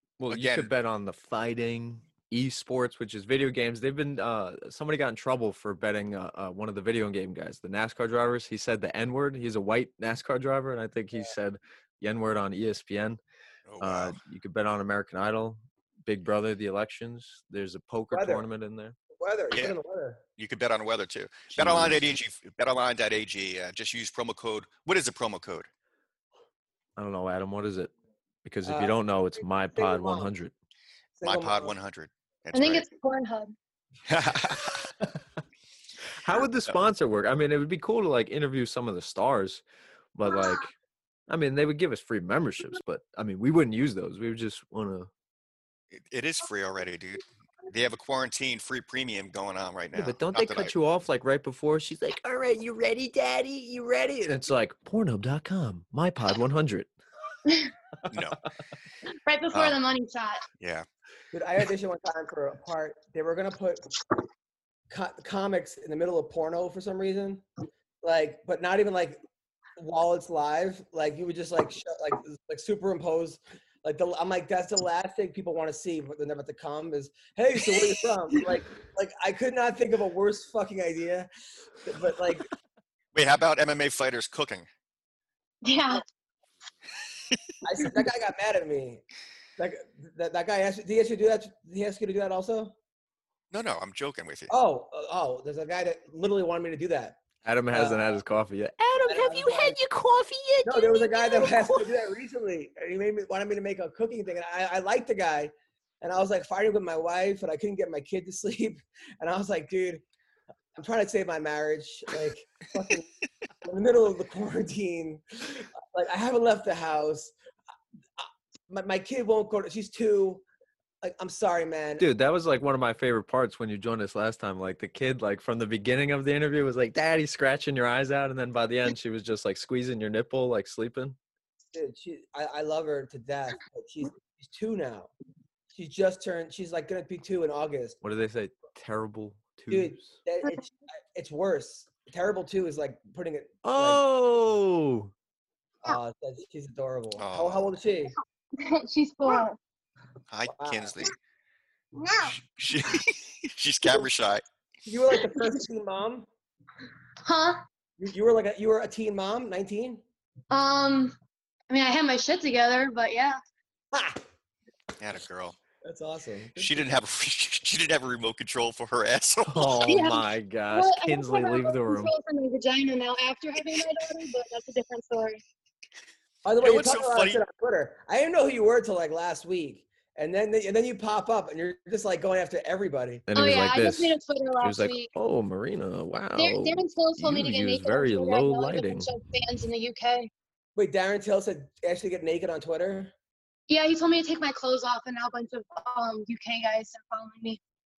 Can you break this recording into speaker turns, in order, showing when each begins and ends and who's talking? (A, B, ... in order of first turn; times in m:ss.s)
0:00.2-0:13.2 A
0:00.3-0:00.7 B
0:13.7-0:14.2 B
0:13.8-0:19.0 A
0:18.1-0:18.4 C
0:19.2-0:20.2 C
0:19.5-0:19.8 B
0:20.4-0:25.7 B
0:21.6-0:22.0 A
0:27.0-0:27.9 A
0:28.4-0:30.5 A
0:28.6-0:30.3 C
0:31.2-0:31.8 C
0:31.2-0:32.9 B
0:32.5-0:33.6 D
0:34.1-0:34.9 B
0:36.2-0:39.6 A
0:40.2-0:40.8 A
0:40.3-0:40.6 D
0:41.3-0:45.1 A
0:45.9-0:50.7 B
0:50.0-0:56.9 A
0:58.1-0:58.4 B
0:59.3-1:00.4 D
0:59.5-0:59.8 B
1:00.6-1:00.9 B
1:01.3-1:03.8 C
1:04.9-1:07.5 C
1:08.0-1:09.2 C
1:09.8-1:21.3 C
1:21.8-1:22.5 C
1:23.1-1:24.7 B
1:25.6-1:26.0 D
1:27.6-1:29.0 C
1:29.6-1:32.8 C
1:33.5-1:34.5 B
1:34.5-1:37.2 C
1:37.4-1:41.9 A
1:37.7-1:38.2 C
1:39.0-1:39.8 C
1:40.6-1:50.0 C
1:50.8-1:53.1 C
1:53.6-1:57.3 C
1:58.2-2:00.4 C
2:01.0-2:02.0 C
2:02.0-2:11.2 A
2:11.7-2:15.1 C
2:15.7-2:18.0 C
2:18.0-2:20.1 A
2:19.7-2:24.0 C
2:23.6-2:25.1 A
2:25.8-2:28.1 C
2:27.2-2:27.7 B
2:28.6-2:29.6 D
2:30.3-2:31.1 B
2:30.4-2:31.0 C
2:32.0-2:32.3 D
2:32.2-2:34.4 B
2:34.9-2:36.3 C
2:37.2-2:37.6 D
2:38.0-2:40.0 C
2:40.5-2:41.2 D
2:41.7-2:43.4 D
2:43.9-2:44.2 C
2:45.0-2:45.6 B
2:45.8-2:46.9 C
2:46.6-2:49.8 B
2:49.5-2:52.1 A
2:49.9-2:55.4 D
2:56.4-3:03.2 C
2:56.6-2:57.4 B
3:03.3-3:09.1 A
3:03.3-3:05.1 D
3:06.4-3:10.3 D
3:10.8-3:13.1 C
3:13.7-3:17.6 D